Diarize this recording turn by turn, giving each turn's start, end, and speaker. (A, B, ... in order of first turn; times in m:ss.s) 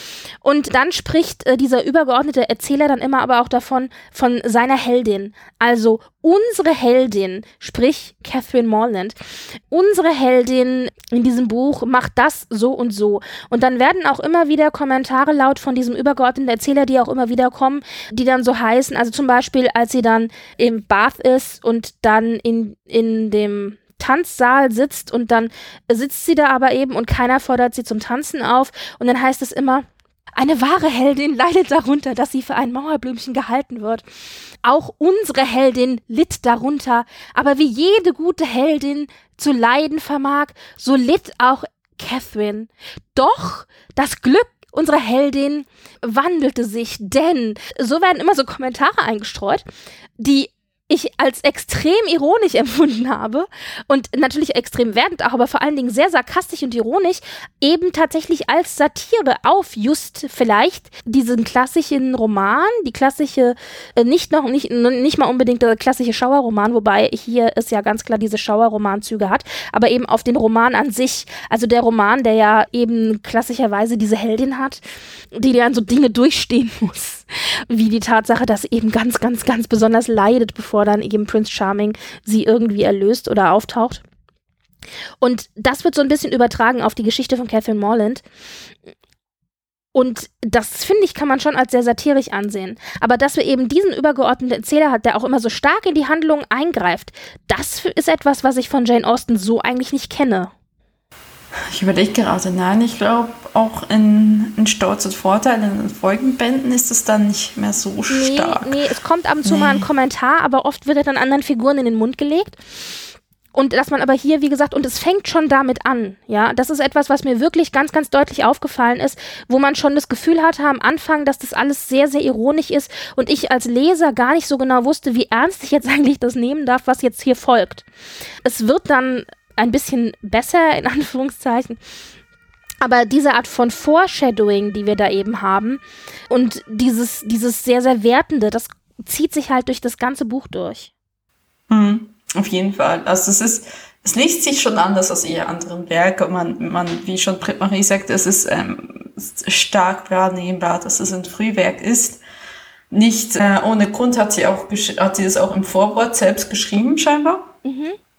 0:00.4-0:09.1 A
0:09.7-0:29.8 A
0:30.4-0:34.0 A
0:34.6-0:49.6 A
0:50.2-1:14.8 A
1:15.3-1:24.0 A
1:25.2-1:28.2 A
1:29.9-1:40.5 A
1:41.7-1:48.7 B
1:48.1-1:52.6 A
1:49.4-1:49.8 B
1:53.6-2:07.8 A
2:08.4-2:11.8 A
2:12.8-2:20.9 A
2:21.7-2:32.2 B
2:32.9-2:37.5 B
2:37.6-2:38.0 A